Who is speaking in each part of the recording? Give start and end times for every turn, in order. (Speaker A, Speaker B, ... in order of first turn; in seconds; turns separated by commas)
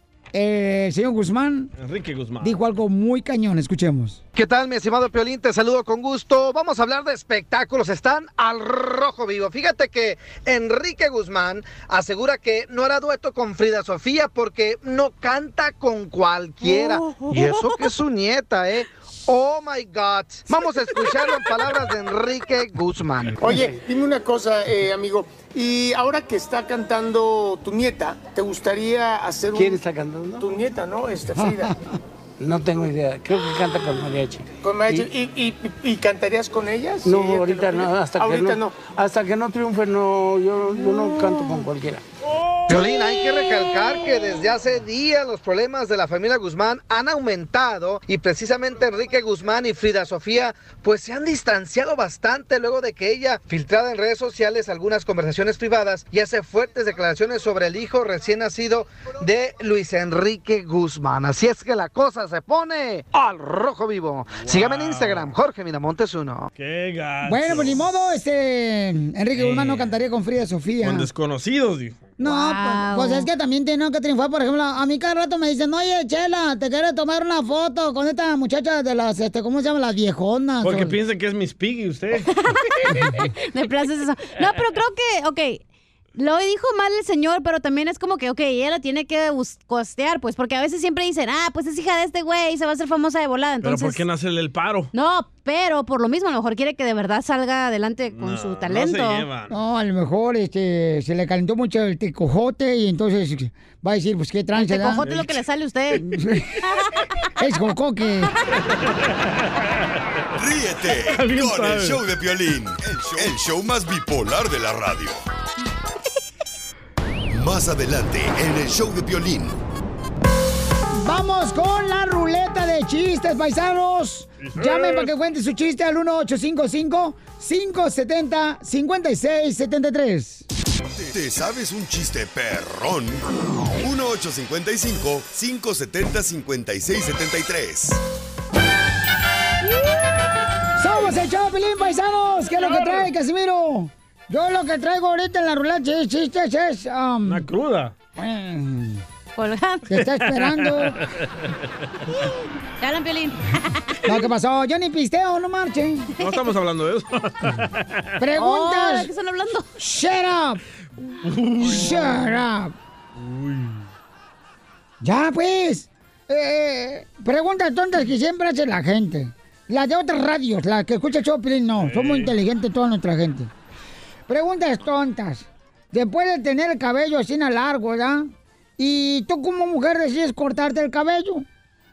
Speaker A: 0.3-1.7, Speaker B: 1.8-2.6, Speaker A: 2.4-4.2, Speaker C: 4.3-23.4, Speaker D: 16.7-17.2, Speaker E: 23.4-29.8, Speaker F: 29.5-30.4, Speaker E: 30.4-31.7, Speaker F: 32.4-35.0, Speaker E: 34.6-38.8, Speaker F: 37.0-42.0, Speaker B: 42.4-42.9, Speaker C: 42.7-66.5, Speaker B: 64.3-65.3, Speaker B: 66.5-67.9, Speaker A: 67.2-71.1, Speaker B: 69.3-69.9, Speaker B: 70.8-72.1, Speaker A: 72.2-81.0, Speaker D: 72.2-73.3, Speaker B: 80.6-82.3, Speaker D: 82.3-85.6, Speaker D: 86.1-94.0, Speaker B: 93.6-94.9, Speaker D: 94.9-99.2, Speaker B: 98.1-99.5, Speaker A: 99.5-105.1, Speaker D: 104.5-106.0, Speaker B: 105.0-105.4, Speaker A: 106.0-106.5, Speaker A: 107.4-108.3, Speaker G: 110.3-115.2, Speaker B: 111.1-112.0, Speaker G: 117.3-119.6, Speaker A: 120.9-130.4, Speaker B: 124.4-125.1, Speaker G: 130.9-133.2, Speaker G: 133.8-138.0, Speaker A: 140.8-147.5, Speaker B: 142.5-143.1, Speaker B: 147.2-147.9, Speaker A: 148.2-149.0, Speaker D: 149.3-149.9, Speaker A: 149.9-151.0, Speaker B: 150.0-151.5, Speaker D: 152.8-154.1, Speaker A: 154.0-156.1, Speaker D: 156.2-156.5, Speaker B: 156.2-158.1, Speaker A: 158.2-159.1, Speaker D: 158.3-159.7, Speaker A: 159.8-160.6, Speaker B: 161.2-162.3, Speaker A: 161.6-162.7, Speaker B: 163.2-163.8, Speaker A: 165.0-173.5, Speaker B: 171.8-172.3, Speaker A: 174.3-181.4